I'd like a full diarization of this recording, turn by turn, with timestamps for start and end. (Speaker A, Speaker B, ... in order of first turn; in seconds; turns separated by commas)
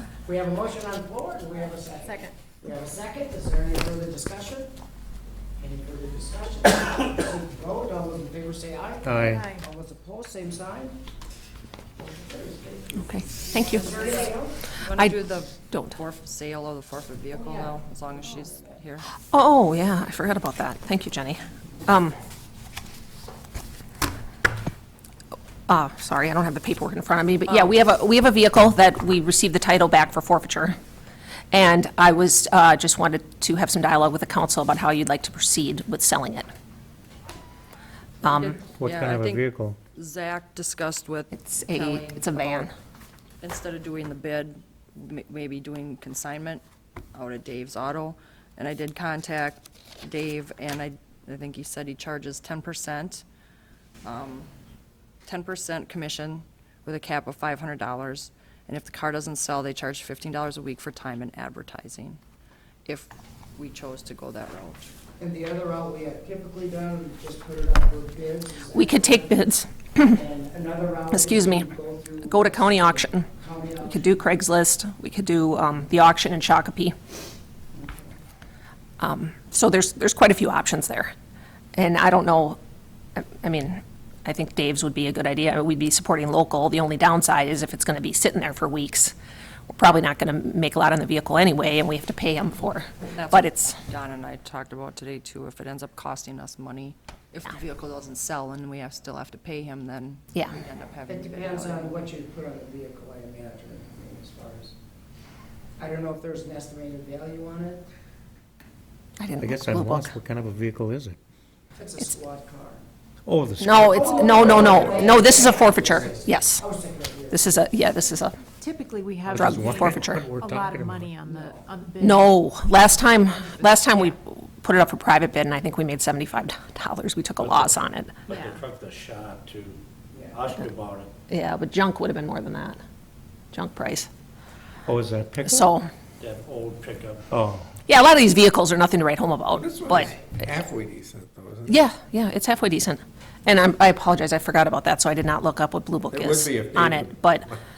Speaker A: 0.2-4.7, Speaker B: 2.0-2.3, Speaker A: 5.6-11.0, Speaker C: 9.0-9.5, Speaker B: 9.2-9.6, Speaker A: 11.9-14.6, Speaker D: 12.9-13.9, Speaker E: 14.8-19.0, Speaker D: 14.9-15.9, Speaker A: 17.3-18.8, Speaker D: 19.3-22.2, Speaker D: 25.7-30.8, Speaker D: 31.5-36.5, Speaker D: 38.2-38.5, Speaker E: 38.2-42.7, Speaker C: 38.8-39.8, Speaker D: 41.3-42.7, Speaker E: 43.4-53.2, Speaker E: 54.0-54.5, Speaker E: 55.2-62.2, Speaker E: 62.8-64.9, Speaker A: 65.2-69.5, Speaker D: 68.7-70.2, Speaker A: 70.0-74.1, Speaker D: 71.1-71.7, Speaker D: 72.2-73.3, Speaker D: 73.8-76.9, Speaker A: 77.7-78.1, Speaker D: 79.0-81.1, Speaker D: 81.8-82.6, Speaker D: 83.2-89.1, Speaker D: 89.7-93.8, Speaker E: 93.1-101.9, Speaker A: 101.1-104.7, Speaker A: 105.8-107.8, Speaker D: 109.2-110.1, Speaker C: 109.4-111.2, Speaker A: 111.8-112.8, Speaker C: 113.2-114.3, Speaker D: 113.6-116.6, Speaker A: 113.8-117.7, Speaker F: 114.3-115.1, Speaker D: 117.3-118.4, Speaker B: 118.6-122.5, Speaker C: 119.3-121.1, Speaker D: 119.3-120.3, Speaker A: 121.2-121.8, Speaker D: 122.0-128.2, Speaker G: 127.4-129.8, Speaker B: 128.3-128.6, Speaker A: 130.1-130.4, Speaker G: 130.3-131.1, Speaker D: 131.3-132.8, Speaker D: 133.5-134.1, Speaker C: 134.8-135.7, Speaker D: 135.4-135.9, Speaker G: 136.2-137.3, Speaker C: 137.3-137.7, Speaker D: 137.9-140.1, Speaker F: 139.5-141.9, Speaker D: 141.7-147.5, Speaker F: 146.1-147.5